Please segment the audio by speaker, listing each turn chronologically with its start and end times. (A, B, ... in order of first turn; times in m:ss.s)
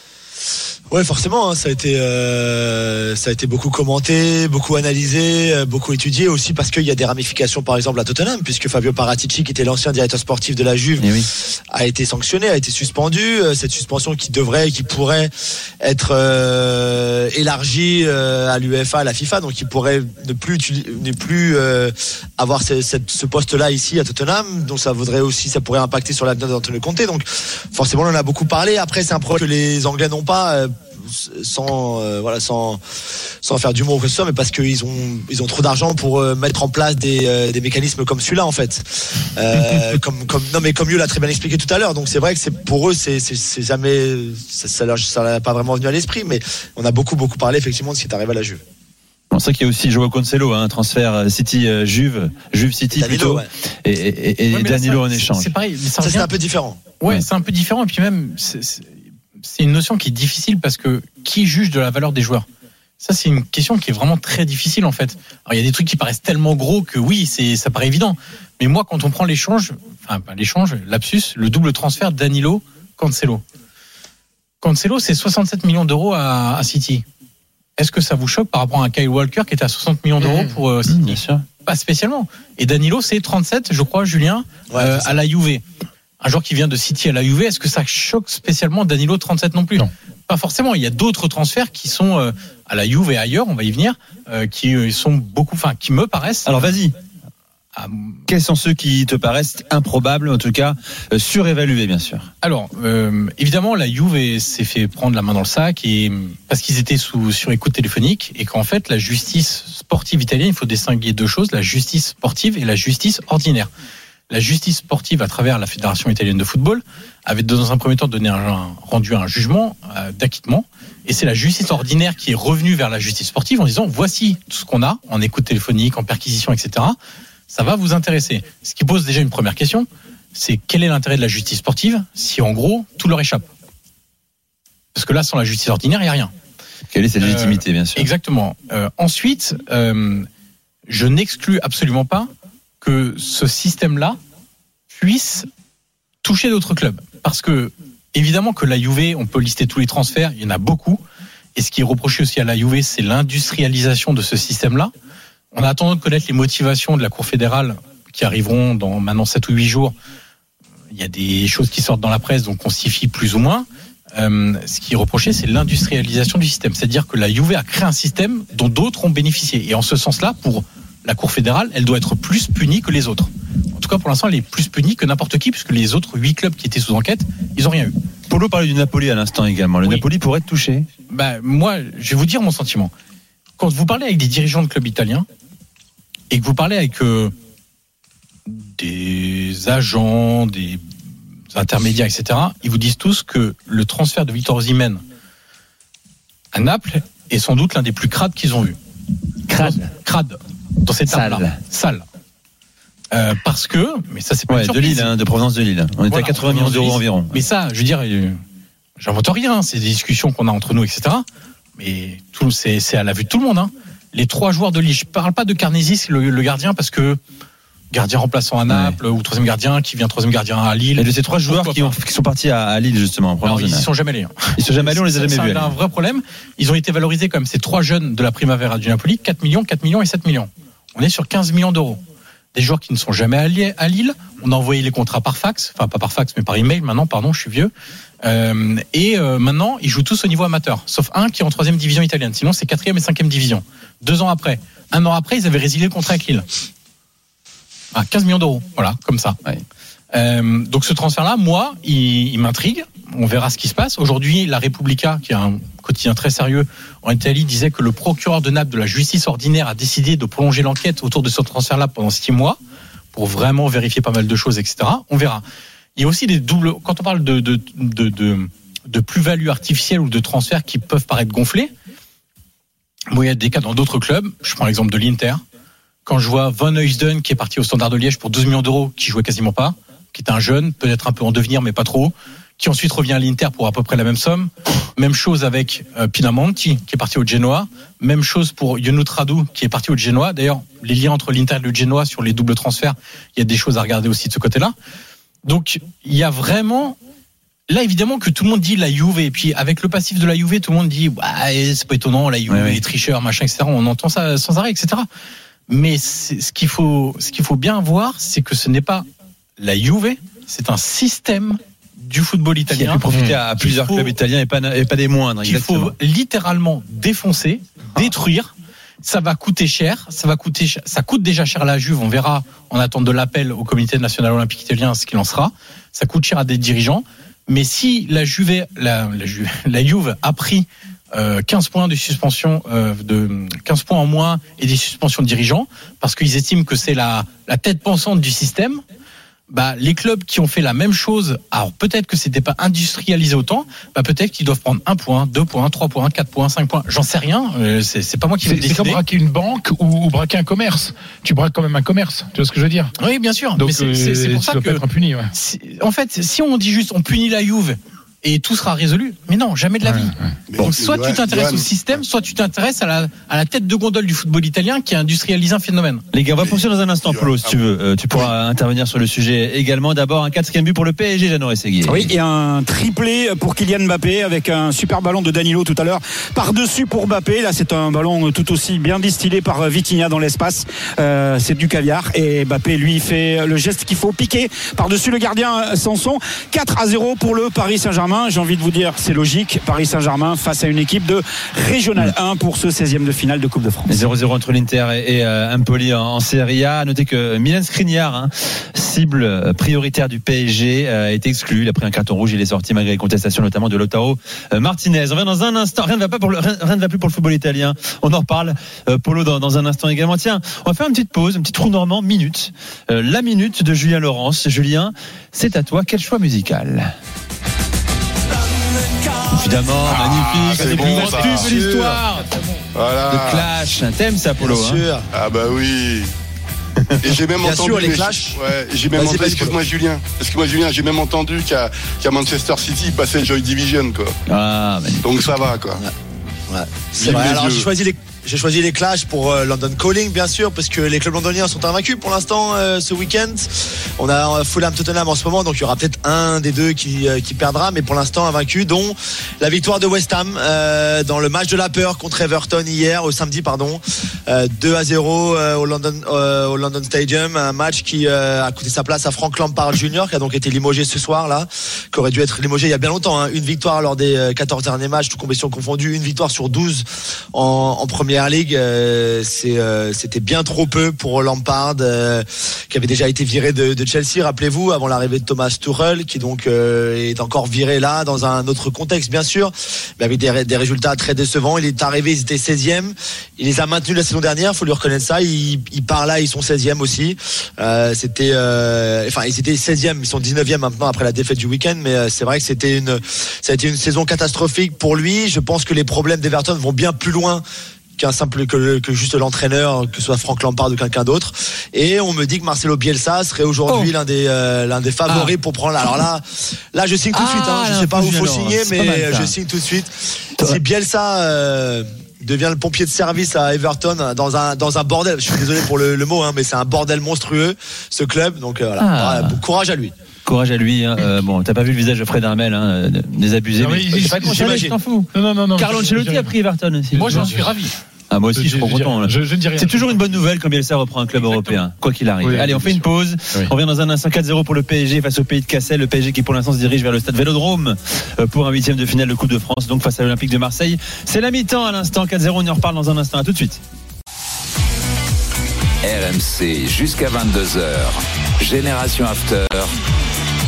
0:00.9-0:11.2 A
0:11.0-0:11.3 B
0:11.7-0:15.3 A
0:15.8-0:32.8 A
0:33.4-0:48.6 A
0:49.3-0:55.5 B
0:52.9-0:53.5 A
0:54.5-0:56.3 C
0:56.0-0:56.8 A
0:57.0-1:02.5 C
1:03.0-1:13.4 C
1:14.6-1:17.0 C
1:17.8-1:25.6 C
1:20.2-1:21.4 B
1:24.7-1:25.2 A
1:26.2-1:36.8 C
1:36.5-1:36.9 B
1:37.8-1:38.2 C
1:38.3-1:42.3 B
1:42.4-1:53.7 C
1:54.3-2:07.0 C
2:07.5-2:13.5 C
2:15.0-2:16.3 C
2:16.9-2:18.1 B
2:17.2-2:20.3 C
2:20.9-2:22.3 C
2:22.8-2:24.2 C
2:24.9-2:25.5 C
2:26.2-2:31.0 C
2:31.6-2:34.9 C
2:35.5-2:40.0 C
2:40.9-2:58.0 C
2:58.3-3:00.9 B
3:01.1-3:02.9 C
3:03.6-3:05.3 C
3:06.3-3:07.3 C
3:08.5-3:10.9 C
3:11.5-3:15.0 C
3:16.5-3:18.8 C
3:19.5-3:19.9 B
3:19.6-3:22.0 C
3:21.1-3:21.6 B
3:23.1-3:25.1 C
3:24.5-3:27.4 B
3:26.1-3:28.4 C
3:29.0-3:31.3 C
3:31.8-3:37.2 C
3:37.9-3:42.0 C
3:38.7-3:39.0 B
3:41.0-3:43.9 B
3:43.4-3:52.0 C
3:44.6-3:45.8 B
3:52.5-3:57.7 C
3:58.2-4:06.4 C
4:07.9-4:09.4 C
4:10.1-4:22.6 C
4:23.1-4:25.4 C
4:26.0-4:31.7 C
4:33.1-4:35.4 C
4:36.1-4:54.7 C
4:55.4-4:57.0 C
4:57.7-5:05.1 C
5:02.5-5:02.8 B
5:05.7-5:09.1 C
5:09.6-5:14.2 C
5:12.7-5:16.0 B
5:15.4-5:18.5 C
5:19.0-5:38.8 C
5:39.5-5:49.0 C
5:48.4-5:52.9 D
5:53.0-5:54.8 C
5:53.6-5:55.3 D
5:55.3-6:06.1 C
5:59.8-6:00.3 D
6:00.5-6:02.0 E
6:06.1-6:12.1 B
6:06.4-6:08.3 E
6:11.8-6:34.0 F
6:33.9-6:56.9 B
6:59.3-7:02.3 B
6:59.9-7:01.6 E
7:00.7-7:02.0 A
7:02.7-7:03.5 E
7:03.1-7:04.8 B
7:04.4-7:05.1 A
7:05.1-7:06.1 E
7:07.0-7:14.2 E
7:07.4-7:08.4 A
7:08.9-7:09.6 A
7:14.3-7:15.1 B
7:15.0-7:15.8 E
7:16.5-8:17.4 A
7:17.0-7:17.7 E
8:18.0-8:39.9 A
8:25.1-8:25.4 B
8:27.1-8:29.3 B
8:38.8-8:39.4 B
8:40.3-8:47.4 B
8:43.6-8:44.6 D
8:43.9-8:44.8 A
8:45.1-8:46.3 D
8:46.9-8:47.6 D
8:47.0-8:47.8 C
8:48.1-9:03.6 B
8:48.3-8:50.1 D
8:51.2-8:51.6 C
8:52.2-8:53.5 D
9:05.8-9:09.7 G